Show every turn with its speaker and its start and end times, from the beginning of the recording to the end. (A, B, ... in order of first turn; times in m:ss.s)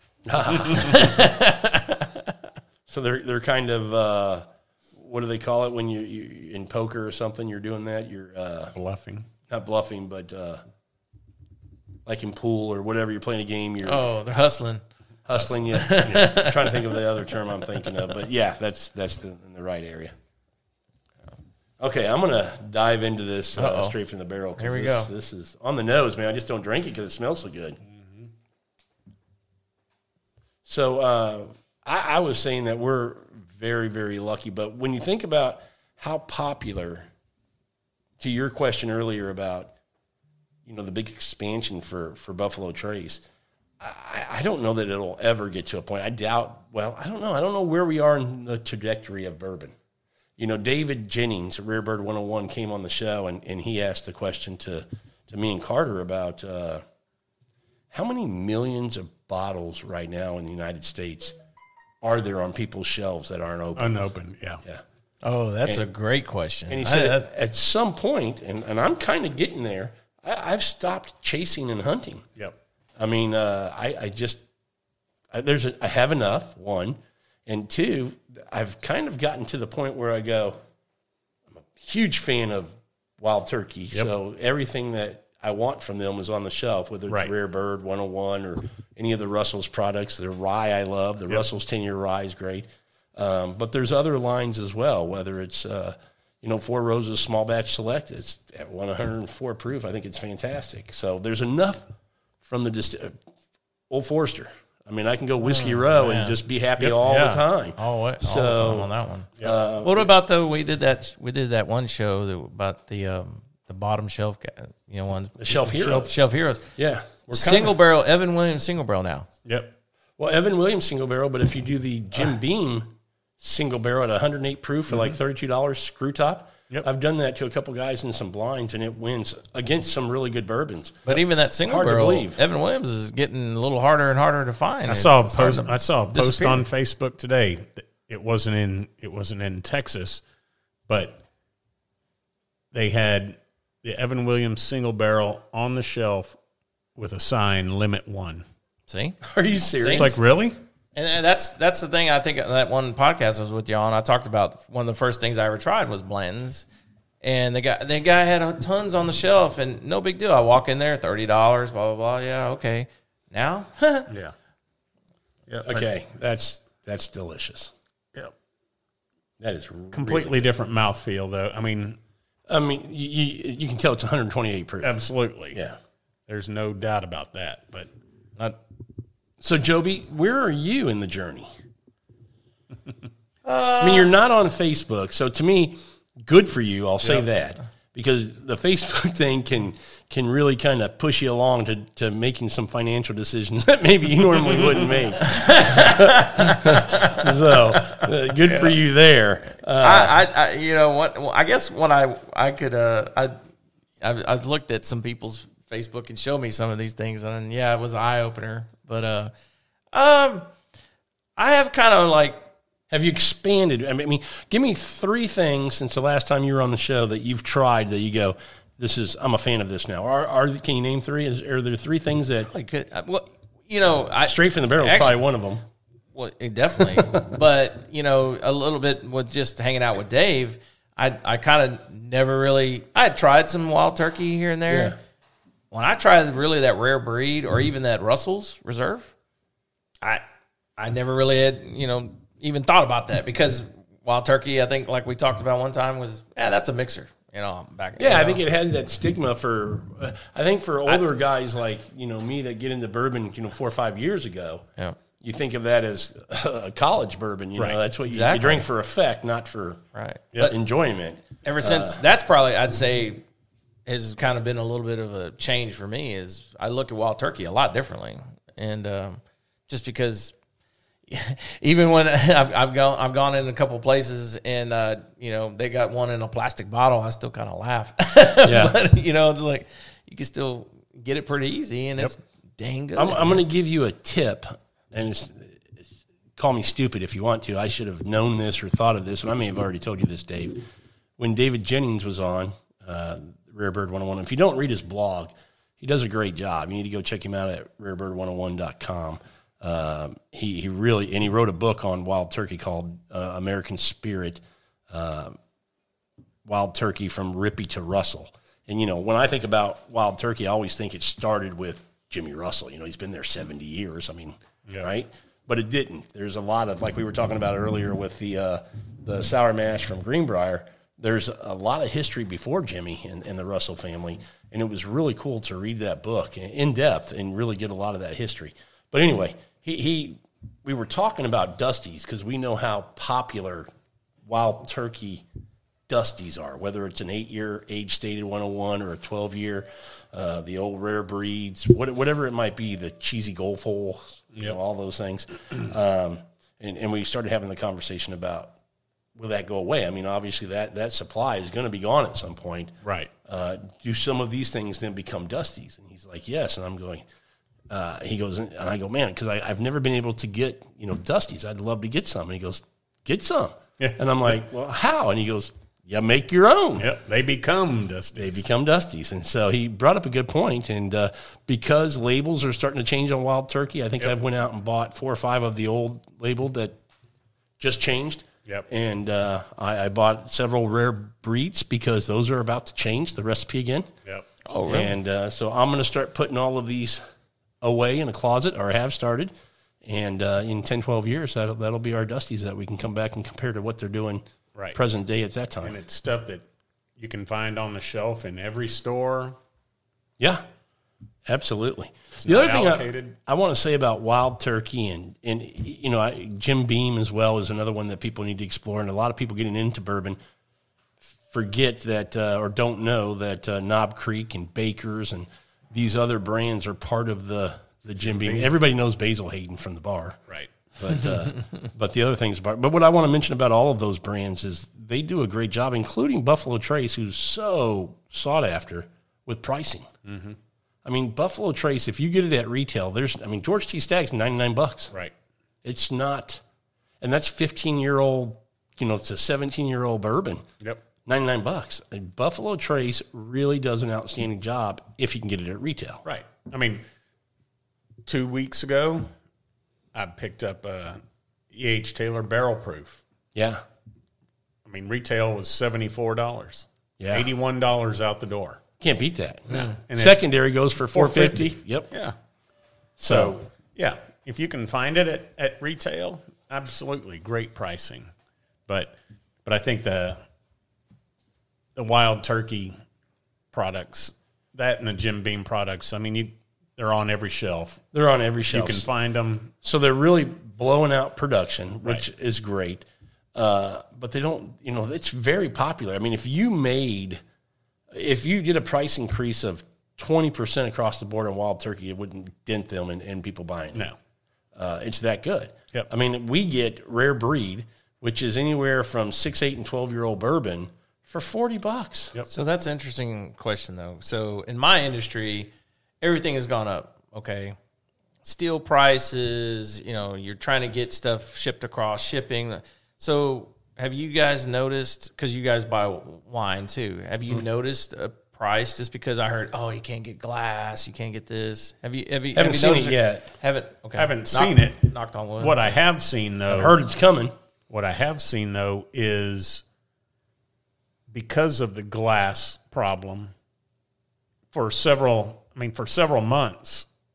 0:00.2-0:01.2 A
0:00.6-0:02.3 B
0:02.9-0:08.7 A
0:08.7-0:09.3 C
0:09.5-0:10.6 A
0:12.0-0:14.0 A
0:13.8-0:14.8 B
0:15.3-0:20.1 A
0:15.5-0:17.3 B
0:21.8-0:27.8 A
0:23.5-0:24.0 B
0:24.6-0:25.1 B
0:27.9-0:28.3 C
0:30.6-0:37.1 A
0:38.2-0:39.7 A
0:40.6-0:43.2 A
0:43.8-0:49.7 A
0:50.4-0:56.8 A
0:57.9-1:01.3 A
1:02.0-1:04.0 A
1:03.8-1:04.6 C
1:05.2-1:07.3 B
1:06.7-1:12.3 A
1:13.0-1:14.4 A
1:15.3-1:20.6 A
1:21.6-1:41.9 A
1:42.4-1:43.2 A
1:43.9-1:48.9 A
1:45.4-1:46.4 B
1:46.8-1:47.4 C
1:47.8-1:49.3 B
1:49.4-1:50.1 A
1:49.8-1:56.7 B
1:55.4-1:56.1 A
1:55.7-1:56.1 C
1:56.8-1:57.7 A
1:57.3-1:59.3 B
1:59.4-1:59.7 C
2:00.2-2:12.4 A
2:11.0-2:16.6 B
2:14.8-2:20.2 C
2:20.9-2:21.2 C
2:22.7-2:26.4 C
2:27.0-2:28.4 C
2:28.9-2:29.2 B
2:29.2-2:30.2 A
2:29.7-2:30.2 B
2:29.9-2:30.6 C
2:30.9-2:36.7 B
2:37.2-2:44.1 B
2:44.1-2:44.3 C
2:45.5-2:45.9 C
2:45.6-2:47.7 A
2:49.4-2:50.4 A
2:49.9-2:52.0 C
2:52.5-2:54.9 A
2:54.8-2:55.6 C
2:55.5-2:55.8 A
2:56.3-2:57.9 C
2:59.4-3:01.5 A
3:03.4-3:04.1 B
3:03.8-3:20.1 A
3:15.2-3:17.2 B
3:19.8-3:23.4 B
3:24.0-3:29.3 B
3:29.9-3:30.5 B
3:31.4-3:32.4 B
3:32.9-3:42.5 A
3:42.4-3:45.2 B
3:44.2-3:45.6 A
3:46.1-3:55.0 B
3:46.8-3:47.3 A
3:54.7-3:55.0 A
3:55.7-3:59.1 B
4:00.8-4:08.4 B
4:08.0-4:14.7 A
4:15.2-4:19.8 A
4:18.1-4:18.6 B
4:19.9-4:20.5 B
4:20.4-4:22.0 A
4:21.4-4:23.2 B
4:23.8-4:30.3 B
4:31.1-4:43.4 B
4:38.4-4:38.7 A
4:43.0-4:45.8 A
4:46.4-4:50.6 A
4:51.2-5:05.4 A
5:06.4-5:33.7 A
5:34.2-5:35.2 A
5:35.9-5:48.5 A
5:49.2-5:52.7 A
5:52.8-5:53.1 C
5:53.2-5:57.0 A
5:57.7-6:06.9 A
6:03.8-6:04.4 C
6:06.8-6:08.4 C
6:08.1-6:16.8 A
6:17.6-6:23.9 A
6:24.4-6:24.9 B
6:24.7-6:27.0 A
6:27.6-6:29.3 A
6:29.8-6:34.2 A
6:34.7-6:35.7 A
6:35.6-6:36.4 C
6:37.0-6:39.4 C
6:41.2-6:50.2 A
6:42.2-6:43.2 C
6:51.3-7:00.2 A
6:58.0-6:58.5 C
7:00.8-7:09.9 A
7:10.0-7:10.4 C
7:10.8-7:14.9 A
7:15.6-7:16.4 A
7:17.0-7:20.4 A
7:21.0-7:26.0 A
7:26.0-7:26.8 C
7:28.0-7:29.1 C
7:29.9-7:31.0 C
7:31.5-7:33.0 C
7:33.3-7:33.6 A
7:34.6-7:38.6 C
7:37.0-7:37.3 A
7:38.8-7:41.9 A
7:39.5-7:39.7 B
7:39.5-7:40.3 C
7:40.8-7:42.1 C
7:43.0-7:43.4 A
7:43.0-7:48.1 C
7:48.7-7:50.2 C
7:51.8-7:52.8 C
7:53.5-7:57.8 C
7:57.9-7:58.9 A
7:58.5-7:59.5 C
7:59.6-8:07.2 A
8:07.9-8:13.9 A
8:14.5-8:22.2 A
8:22.3-8:25.5 B
8:26.0-8:27.6 B
8:28.2-8:45.6 B
8:42.3-8:43.3 A
8:44.0-8:46.8 C
8:46.5-8:47.3 A
8:47.7-8:49.6 C
8:51.1-8:53.3 C
8:54.5-8:56.8 C